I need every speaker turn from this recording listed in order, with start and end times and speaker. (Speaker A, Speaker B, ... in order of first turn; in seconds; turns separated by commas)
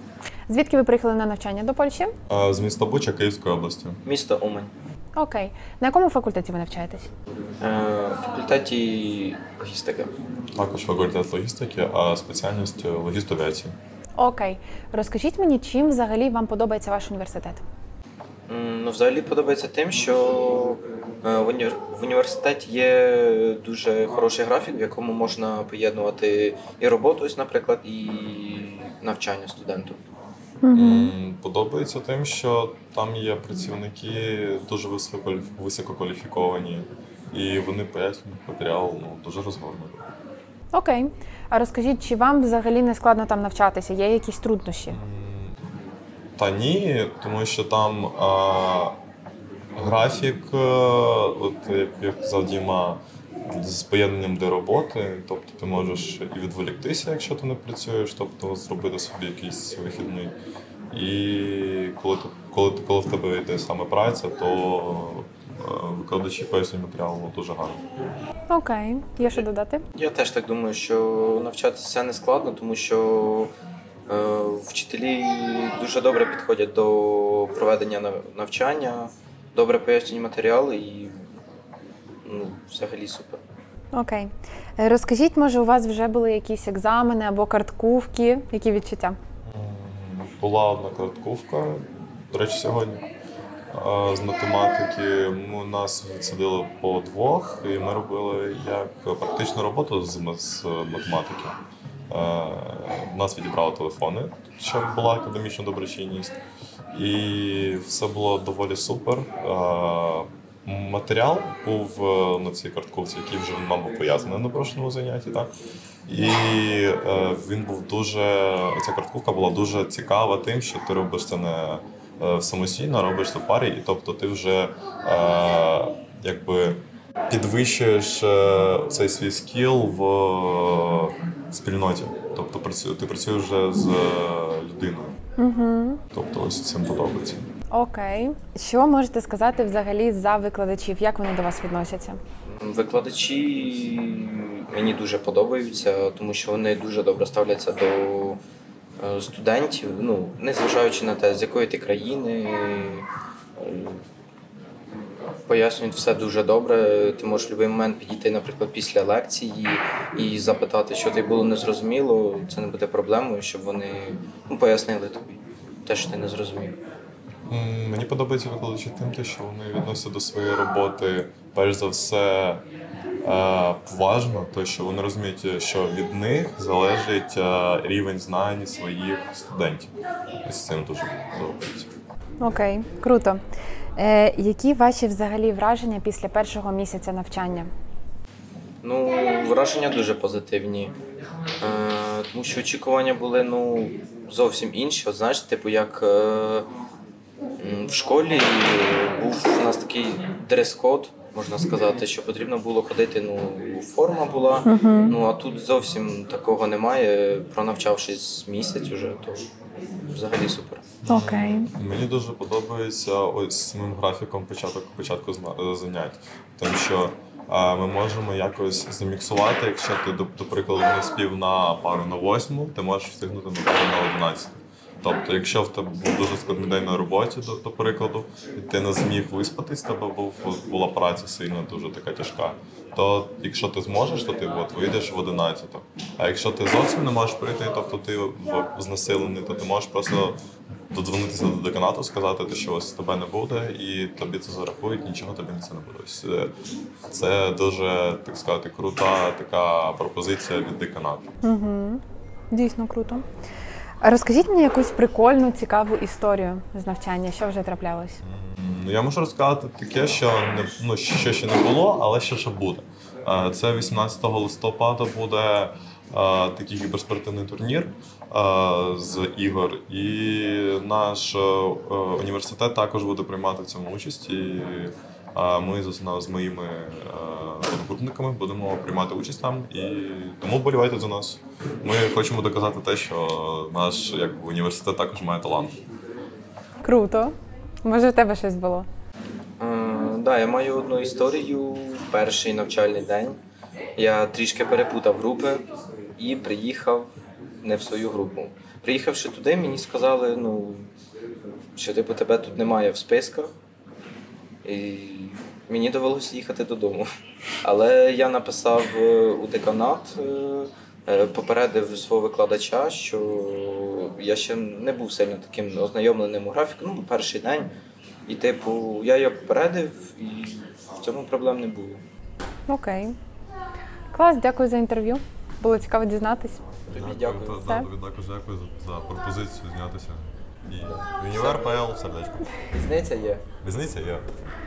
Speaker A: 0.5-2.1, Speaker B: 2.3-4.0, Speaker C: 4.0-4.7, Speaker A: 5.2-7.1, Speaker C: 7.6-10.1, Speaker B: 10.6-13.8, Speaker A: 14.2-17.6, Speaker C: 18.5-30.0, Speaker A: 30.6-31.1, Speaker B: 30.7-40.0, Speaker A: 40.7-45.0, Speaker B: 44.9-45.6, Speaker B: 46.4-49.0, Speaker B: 49.8-60.3, Speaker B: 60.9-67.8, Speaker A: 68.5-69.8, Speaker C: 69.9-73.5, Speaker C: 74.1-81.2, Speaker C: 82.2-83.4, Speaker A: 83.9-89.2, Speaker B: 89.4-93.0, Speaker B: 93.7-101.6, Speaker B: 102.1-106.3, Speaker B: 106.9-115.5, Speaker B: 116.1-135.2, Speaker A: 135.4-136.0, Speaker B: 136.1-137.5, Speaker A: 137.7-142.2, Speaker C: 142.4-148.4, Speaker C: 149.0-154.0, Speaker C: 155.5-166.8, Speaker B: 167.5-172.6, Speaker B: 173.2-179.9, Speaker B: 180.4-181.9, Speaker A: 182.4-183.4, Speaker A: 183.9-187.7, Speaker C: 188.8-190.9, Speaker C: 191.6-196.7, Speaker C: 197.6-209.5, Speaker A: 204.7-205.2, Speaker C: 210.1-210.9, Speaker B: 211.0-240.4, Speaker A: 211.1-211.7, Speaker B: 240.9-246.5, Speaker B: 247.1-251.3, Speaker A: 251.4-253.2, Speaker A: 254.0-258.2, Speaker B: 258.2-285.8, Speaker A: 286.8-288.9, Speaker C: 289.6-293.4, Speaker C: 293.9-295.6, Speaker C: 296.2-297.1, Speaker C: 297.6-300.9, Speaker C: 301.8-303.5, Speaker C: 304.6-307.0, Speaker C: 307.6-317.7, Speaker C: 318.3-322.0, Speaker A: 322.7-323.1, Speaker A: 324.1-326.6, Speaker C: 326.9-327.8, Speaker B: 326.9-332.6, Speaker C: 330.8-331.7, Speaker C: 332.7-333.4, Speaker B: 333.6-334.3